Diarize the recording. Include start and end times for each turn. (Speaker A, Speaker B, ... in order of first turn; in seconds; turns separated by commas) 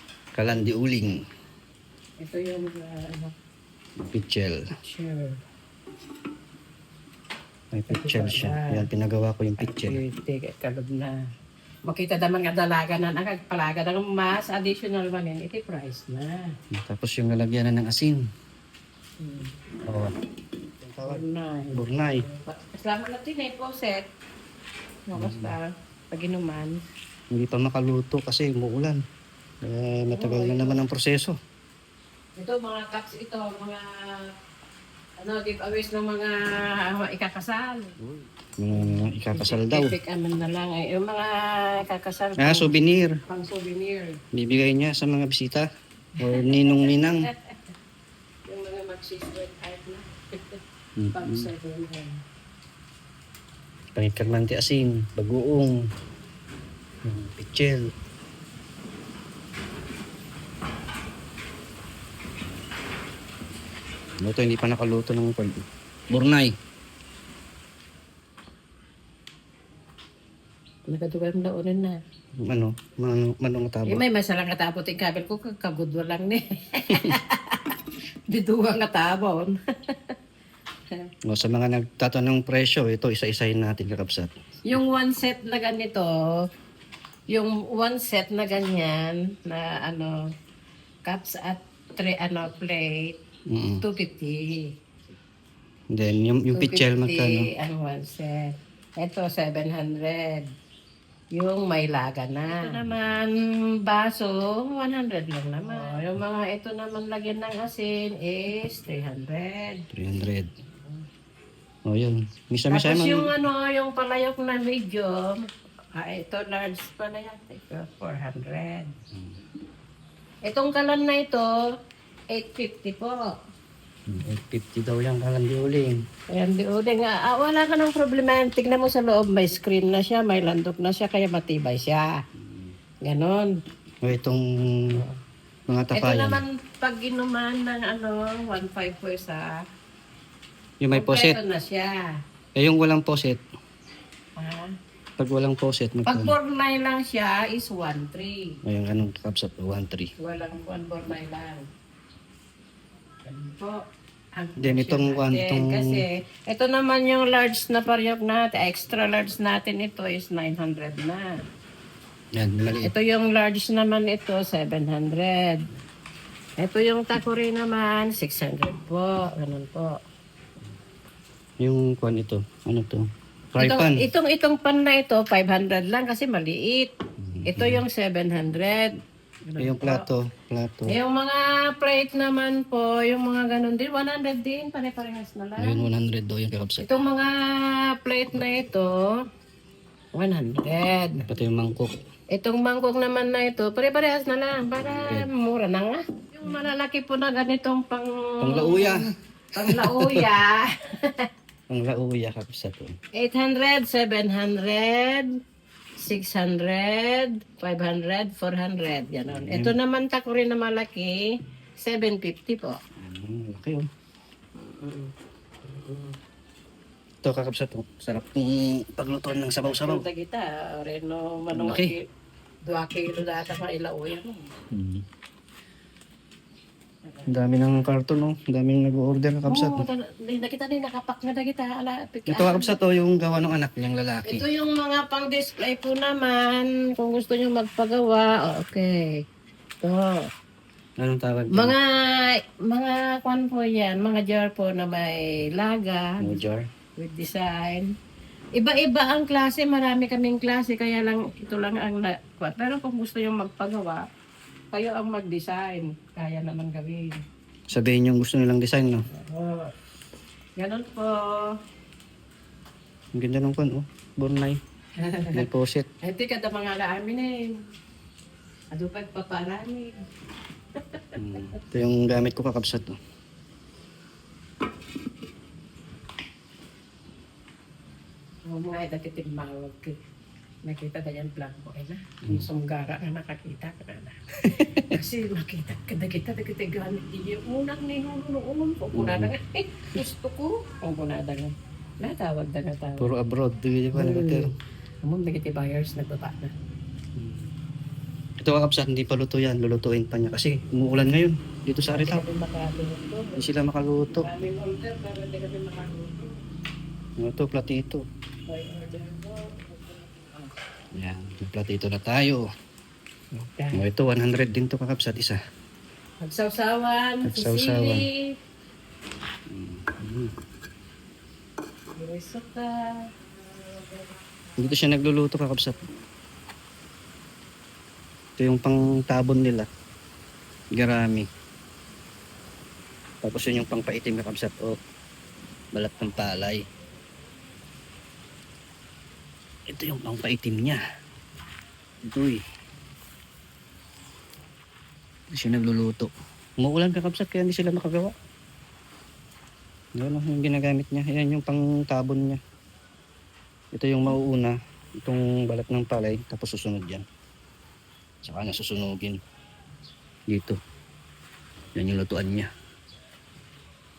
Speaker A: 0.3-1.2, Speaker B: 2.2-3.3, Speaker A: 4.0-4.6, Speaker B: 4.8-5.4, Speaker A: 7.7-10.0, Speaker B: 7.9-8.9, Speaker B: 9.6-11.2, Speaker B: 11.9-16.5, Speaker A: 16.7-18.2, Speaker B: 19.2-19.6, Speaker A: 19.9-20.1, Speaker A: 20.8-21.2, Speaker B: 21.0-24.1, Speaker A: 21.7-22.2, Speaker B: 25.1-26.8, Speaker A: 25.1-25.6, Speaker A: 27.3-29.0, Speaker A: 29.6-31.4, Speaker B: 30.1-30.8, Speaker B: 32.4-34.3, Speaker B: 35.2-38.0, Speaker A: 38.0-39.9, Speaker B: 38.7-42.7, Speaker A: 42.4-43.1, Speaker B: 43.3-44.2, Speaker A: 44.3-45.7, Speaker A: 46.2-47.3, Speaker B: 46.2-47.6, Speaker B: 48.5-50.6, Speaker A: 51.0-51.5, Speaker B: 51.1-52.2, Speaker A: 54.0-55.8, Speaker A: 57.0-57.9, Speaker A: 64.2-66.5, Speaker B: 70.9-72.0, Speaker A: 72.4-74.0, Speaker B: 73.9-77.8, Speaker B: 78.3-80.1, Speaker A: 81.3-84.3, Speaker B: 84.7-86.5, Speaker B: 87.3-90.2, Speaker B: 91.0-93.2, Speaker A: 93.5-93.8, Speaker B: 93.8-94.7, Speaker A: 95.9-97.5, Speaker B: 96.5-100.5, Speaker B: 101.3-109.9, Speaker A: 109.9-110.5, Speaker A: 111.9-113.3, Speaker B: 112.7-115.4, Speaker B: 115.9-118.9, Speaker B: 120.5-121.6, Speaker B: 122.3-123.3, Speaker A: 124.1-126.0, Speaker B: 126.3-132.2, Speaker A: 132.4-132.7, Speaker B: 133.0-133.5, Speaker A: 134.0-134.9, Speaker A: 135.7-136.4, Speaker B: 135.9-139.6, Speaker A: 140.8-141.4, Speaker B: 140.9-142.1, Speaker A: 142.6-143.4, Speaker B: 144.4-144.7, Speaker A: 145.2-146.3, Speaker B: 146.1-148.6, Speaker A: 148.7-150.1, Speaker B: 150.2-151.7, Speaker B: 153.3-153.8, Speaker B: 154.4-161.3, Speaker A: 154.6-156.0, Speaker A: 162.4-162.9, Speaker B: 162.8-165.7, Speaker B: 166.6-169.9, Speaker A: 171.6-174.1, Speaker B: 173.6-176.9, Speaker A: 177.2-177.8, Speaker B: 177.4-180.1, Speaker A: 179.6-181.0, Speaker B: 180.9-185.9, Speaker A: 185.6-187.0, Speaker B: 186.8-189.2, Speaker B: 190.1-191.2, Speaker A: 191.2-191.9, Speaker B: 192.3-201.3, Speaker A: 194.8-195.3, Speaker A: 198.4-199.1, Speaker A: 199.6-200.3, Speaker A: 201.7-202.9, Speaker B: 203.2-205.3, Speaker B: 206.0-211.3, Speaker A: 209.3-209.7, Speaker B: 211.8-212.8, Speaker A: 213.0-213.9, Speaker B: 214.6-215.1, Speaker B: 215.6-216.2, Speaker A: 217.2-220.1, Speaker B: 219.6-222.0, Speaker A: 221.5-221.9, Speaker B: 222.7-224.5, Speaker A: 224.7-225.0, Speaker B: 227.1-227.5, Speaker A: 227.3-229.8, Speaker B: 229.5-232.8, Speaker A: 232.3-234.4, Speaker B: 234.3-239.2, Speaker B: 239.8-240.2, Speaker A: 241.0-241.7, Speaker B: 241.5-246.4, Speaker A: 246.2-246.7, Speaker B: 247.0-247.9, Speaker B: 248.6-254.1, Speaker B: 254.7-257.2, Speaker A: 257.7-259.1, Speaker B: 259.1-259.7, Speaker B: 260.6-261.5, Speaker A: 263.1-264.6, Speaker B: 265.0-265.4, Speaker A: 265.3-265.9, Speaker B: 266.0-267.5, Speaker B: 268.7-269.9, Speaker B: 270.8-271.4, Speaker A: 271.1-273.0, Speaker B: 278.5-280.0, Speaker B: 280.6-284.2, Speaker A: 284.4-284.9, Speaker B: 284.9-293.1, Speaker A: 288.9-289.3, Speaker A: 293.0-294.5, Speaker B: 293.9-294.5, Speaker B: 295.0-296.5, Speaker A: 297.2-297.5, Speaker A: 298.4-302.2, Speaker B: 301.9-303.4, Speaker A: 303.4-304.3, Speaker B: 304.1-306.4, Speaker A: 307.2-308.0, Speaker B: 308.5-310.5, Speaker A: 310.9-312.4, Speaker B: 313.3-313.8, Speaker A: 313.7-315.4, Speaker B: 316.2-318.3, Speaker A: 317.2-318.0, Speaker A: 319.5-320.3, Speaker B: 322.0-324.9, Speaker A: 324.6-325.8, Speaker A: 328.4-329.7, Speaker A: 330.8-331.3, Speaker A: 333.2-334.8, Speaker A: 335.7-336.6, Speaker A: 339.7-340.8, Speaker A: 342.1-342.4, Speaker A: 345.3-348.1, Speaker A: 350.0-352.4, Speaker A: 353.7-357.1, Speaker A: 358.2-359.2, Speaker A: 360.3-360.6, Speaker A: 361.8-362.5